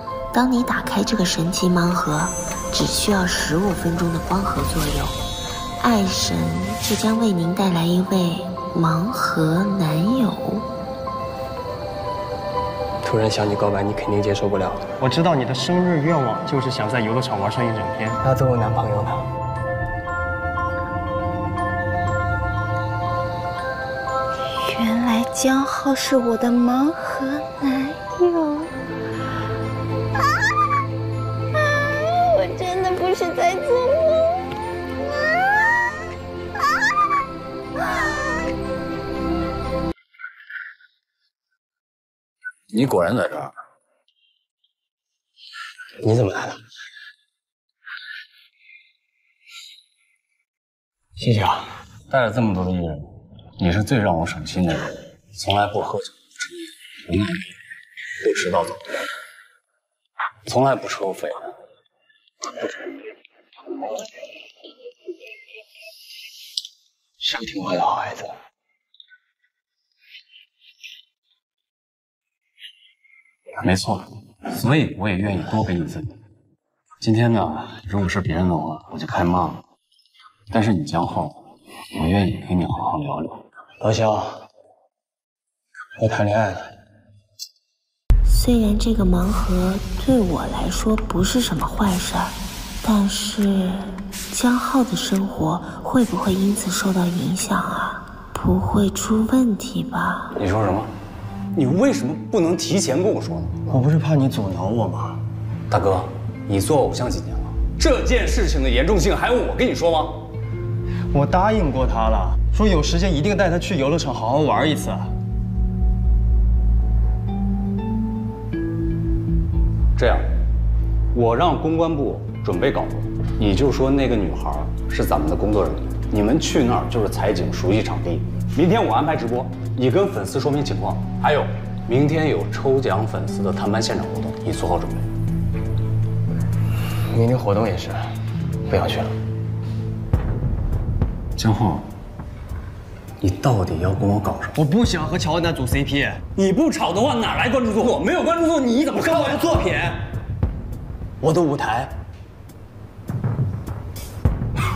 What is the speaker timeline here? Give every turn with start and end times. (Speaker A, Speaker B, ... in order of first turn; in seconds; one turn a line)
Speaker A: 0.3-5.2
Speaker A: 5.8-10.7
Speaker B: 13.0-19.3
Speaker C: 24.6-28.7
Speaker C: 31.6-34.5
Speaker D: 42.7-43.5
Speaker B: 46.0-46.6
Speaker B: 51.2-51.7
Speaker D: 52.1-56.1
Speaker D: 57.1-57.4
Speaker D: 58.2-58.8
Speaker D: 60.5-61.5
Speaker D: 67.2-68.0
Speaker D: 73.6-76.2
Speaker D: 77.0-79.6
Speaker D: 80.5-83.4
Speaker B: 83.8-84.5
Speaker B: 86.0-86.7
Speaker A: 88.3-100.3
Speaker D: 100.4-100.9
Speaker D: 101.5-103.6
Speaker B: 103.7-105.2
Speaker D: 105.7-110.3
Speaker B: 111.1-115.1
Speaker D: 120.0-120.3
Speaker D: 121.1-135.1
Speaker B: 137.1-138.1
Speaker B: 138.7-139.2
Speaker D: 141.4-141.9
Speaker D: 143.2-144.6
Speaker B: 144.6-146.2
Speaker D: 146.4-150.0
Speaker B: 151.2-151.9